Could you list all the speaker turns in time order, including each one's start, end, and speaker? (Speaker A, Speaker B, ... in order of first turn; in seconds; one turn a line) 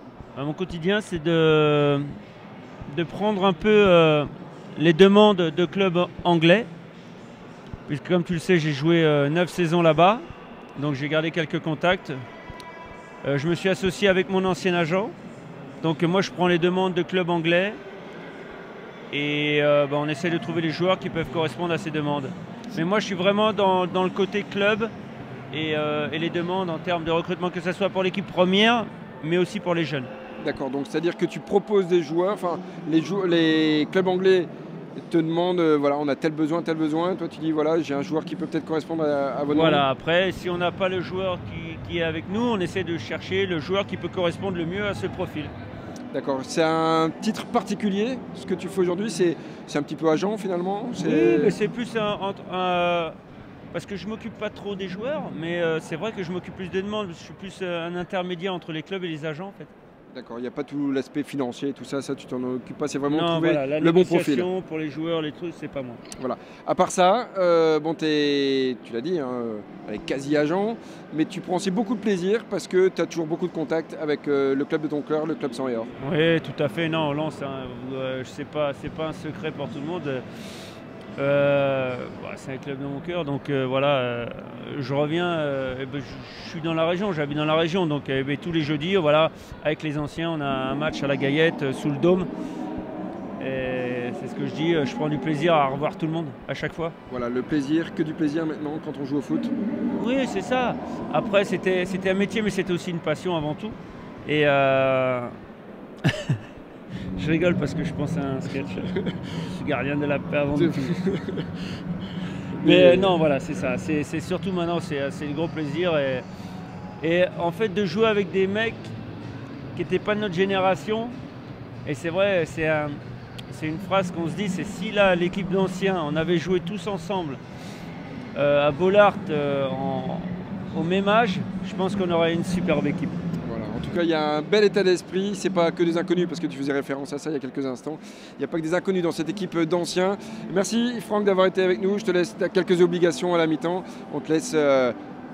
Speaker A: 0.3-2.1
Speaker A: 2.9-6.7
Speaker A: 7.9-10.2
Speaker A: 10.8-12.2
Speaker A: 13.2-15.1
Speaker A: 15.8-17.8
Speaker A: 19.1-24.9
Speaker A: 25.5-30.1
Speaker B: 30.4-39.9
Speaker A: 39.5-45.5
Speaker B: 46.1-51.5
Speaker A: 51.0-53.1
Speaker A: 53.7-59.7
Speaker B: 60.1-64.5
Speaker A: 63.1-66.0
Speaker B: 66.2-75.9
Speaker A: 76.0-80.2
Speaker A: 81.2-92.3
Speaker A: 93.4-97.0
Speaker B: 97.1-99.5
Speaker A: 100.0-105.3
Speaker A: 106.0-106.4
Speaker A: 107.2-111.0
Speaker B: 110.5-111.5
Speaker B: 112.5-113.2
Speaker A: 112.6-116.2
Speaker A: 117.0-118.9
Speaker A: 119.7-121.2
Speaker A: 121.8-127.4
Speaker A: 128.3-133.1
Speaker B: 133.4-144.9